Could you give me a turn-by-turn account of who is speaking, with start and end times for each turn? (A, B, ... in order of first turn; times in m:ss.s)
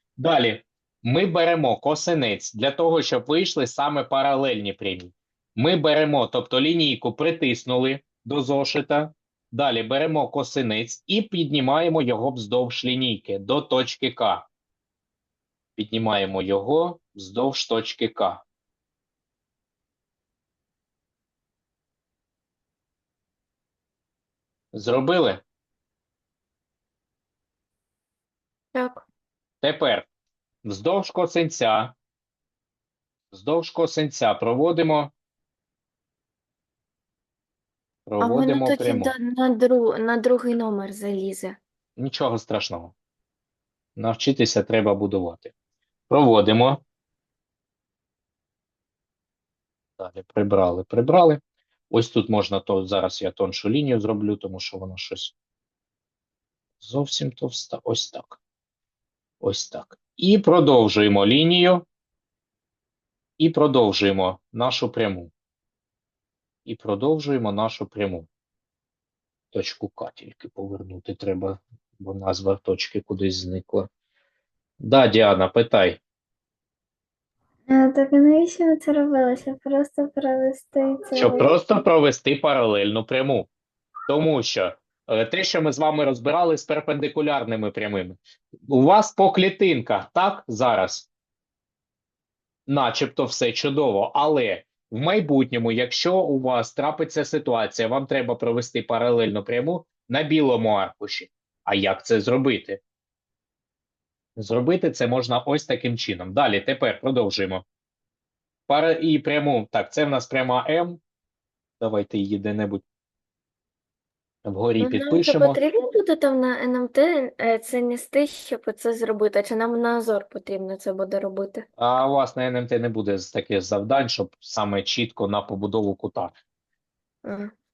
0:00.2-0:14.5 A
0:15.8-0:18.4 A
0:24.7-0:25.4 A
0:28.7-0:29.0 B
0:29.6-0:30.1 A
0:30.6-0:32.0 A
0:33.3-0:35.1 A
0:38.1-0:39.1 A
0:38.2-0:41.6 B
0:42.0-0:42.9 A
0:44.0-0:45.5 A
0:46.1-0:46.8 A
0:50.0-0:55.3 A
0:56.8-0:58.4 A
0:59.4-1:01.9 A
1:03.4-1:05.3 A
1:06.7-1:08.3 A
1:09.5-1:13.9 A
1:14.8-1:16.0 A
1:17.7-1:21.5 C
1:21.2-1:23.5 A
1:24.1-1:31.1 A
1:32.7-1:42.8 A
1:44.4-1:47.6 A
1:48.7-1:51.0 A
1:51.8-1:52.8 A
1:54.4-1:55.6 A
1:54.8-2:01.6 B
2:01.8-2:06.3 A
2:07.2-2:07.5 B